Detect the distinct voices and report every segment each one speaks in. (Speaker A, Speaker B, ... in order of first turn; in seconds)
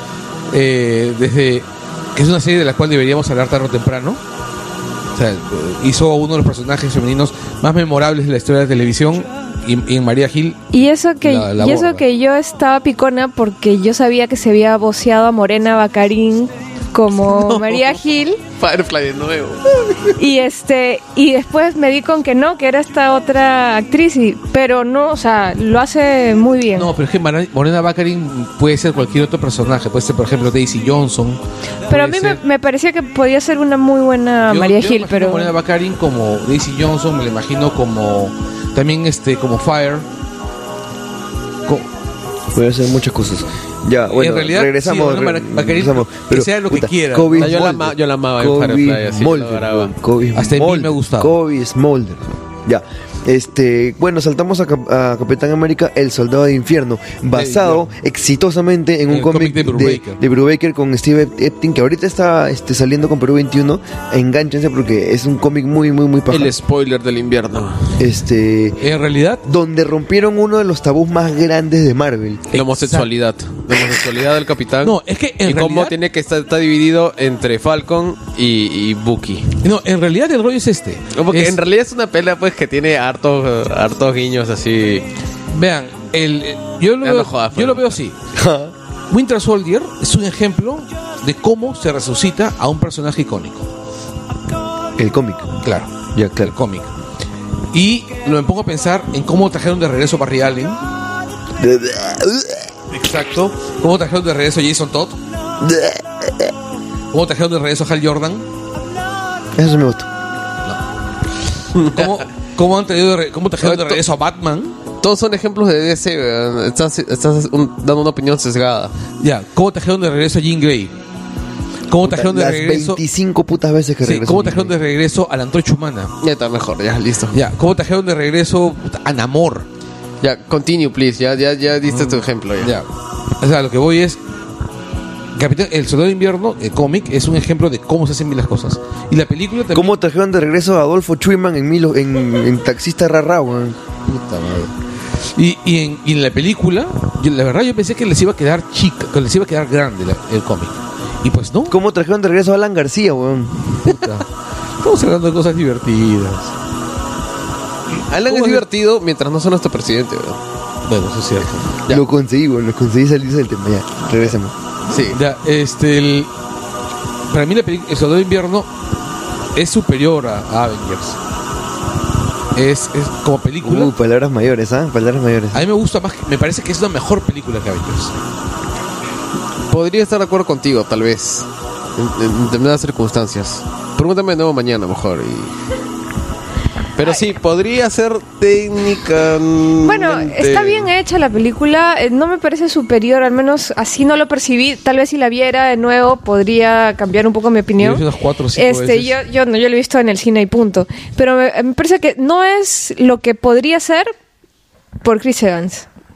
Speaker A: 0.5-4.2, 5.1-12.0, 26.7-32.4, 34.5-40.1, 44.1-47.6, 50.3-51.3, 57.3-57.8, 59.1-60.2, 68.8-69.4, 72.5-73.1, 74.8-75.9, 79.6-81.6, 85.5-88.2, 89.1-93.7, 95.6-96.9, 97.7-100.8, 102.9-105.2, 107.1-108.5, 111.8-114.8, 119.2-120.9, 121.9-123.0, 124.0-126.1, 127.3-129.7, 131.9-134.2, 135.3-139.9, 144.0-151.7, 153.8-156.5, 158.3-158.6, 160.9-161.8, 165.1-166.3, 167.3-168.7, 169.5-171.2, 172.6-173.9, 175.5-178.1, 197.8-199.2
Speaker B: 10.7-18.4, 20.1-26.9, 31.9-35.5, 189.8-198.0, 198.6-204.1, 205.0-205.8
Speaker C: 17.3-18.0, 18.5-20.1, 47.3-49.9, 66.3-68.0, 72.5-79.6, 81.1-85.1, 87.0-88.0, 111.7-112.2, 113.6-114.0, 115.0-118.9, 126.2-127.4, 130.2-132.7, 158.1-160.4, 164.9-165.2, 179.7-185.5, 186.9-190.9
Speaker D: 42.5-66.5, 68.0-68.9, 69.4-72.5, 88.3-88.7, 95.0-95.5, 96.1-96.5, 101.6-102.7, 105.6-106.5, 109.5-110.1, 122.0-124.7, 139.7-143.8, 151.7-154.0, 161.9-164.5, 173.6-175.6